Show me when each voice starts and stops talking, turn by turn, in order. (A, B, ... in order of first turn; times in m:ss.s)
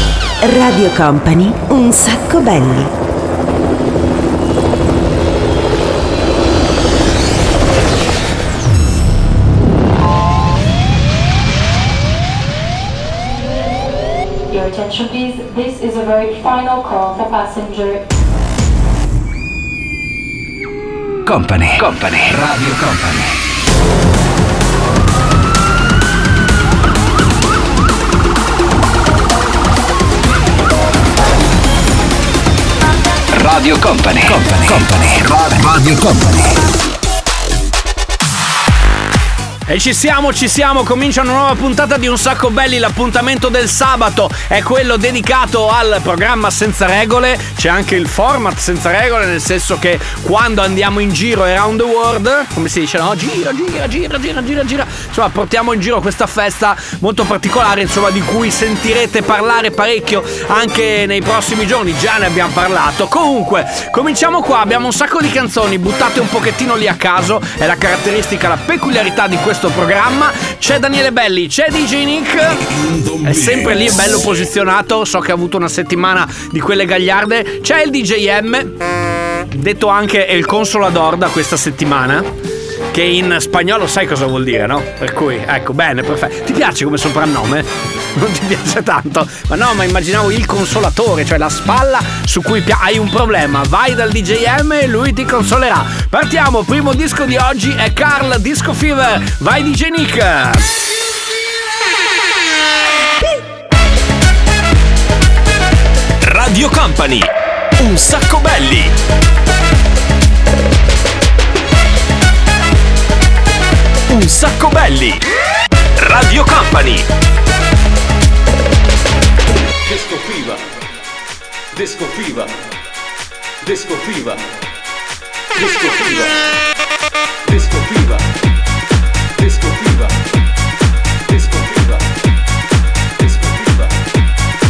0:00.4-0:02.9 A
0:14.6-0:17.9 B
0:21.2-0:23.3 C
0:33.3-0:36.6 C
0:39.7-1:12.6 D
1:12.7-1:13.8 E
1:13.2-1:18.7 D
1:19.5-1:22.2 D
1:22.9-1:40.7 D
1:46.2-1:48.9 E
1:54.1-1:55.2 E
1:56.0-1:57.0 E
1:59.8-2:00.6 F
2:01.7-2:02.5 F
2:03.6-2:04.4 F
2:05.5-2:06.3 F
2:07.5-2:08.3 F
2:09.4-2:10.2 F
2:11.3-2:12.1 F
2:13.2-2:13.9 F